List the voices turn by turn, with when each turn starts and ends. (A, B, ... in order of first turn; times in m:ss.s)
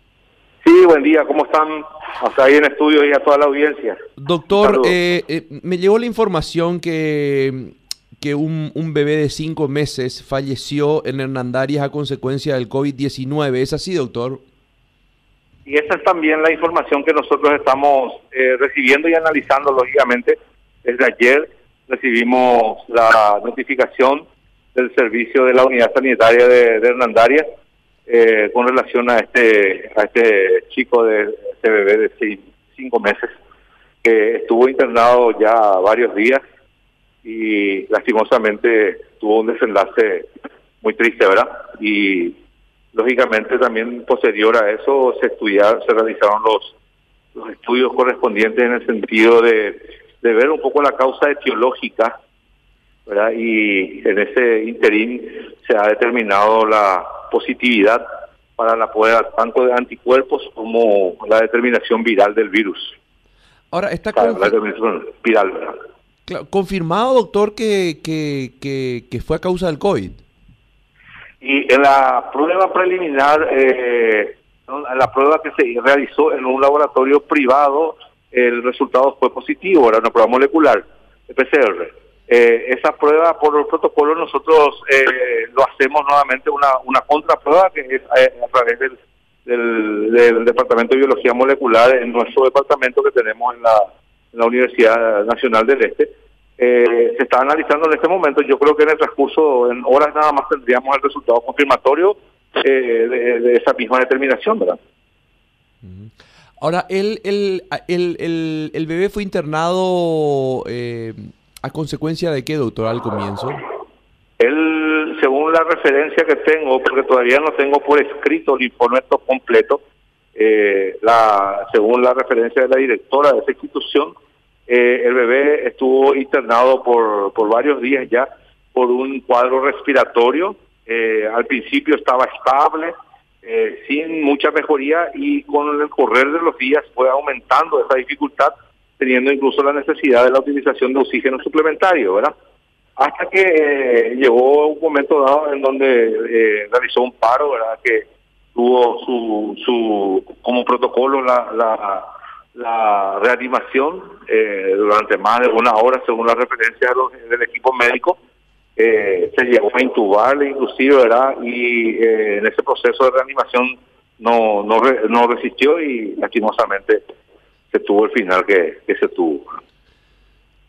0:00.6-0:04.0 A
0:04.2-0:14.4 B
0:04.5-0:05.0 A
0:15.6-0:27.4 A
0:28.1-0:33.3 A
0:34.0-0:36.4 A
0:37.2-0:40.3 A
0:40.8-0:42.4 A
0:42.9-0:46.7 A
0:47.3-0:52.1 A
0:53.1-0:58.0 A
0:58.6-1:03.0 A
1:03.7-1:04.5 B
1:04.1-1:05.8 A
1:06.3-1:10.2 B
1:11.4-1:44.8 A
1:45.8-1:53.6 B
1:54.4-1:59.8 A
2:00.3-2:04.2 A
2:04.7-2:22.3 A
2:23.0-2:38.2 A
2:38.8-2:47.0 A
2:47.7-2:49.5 A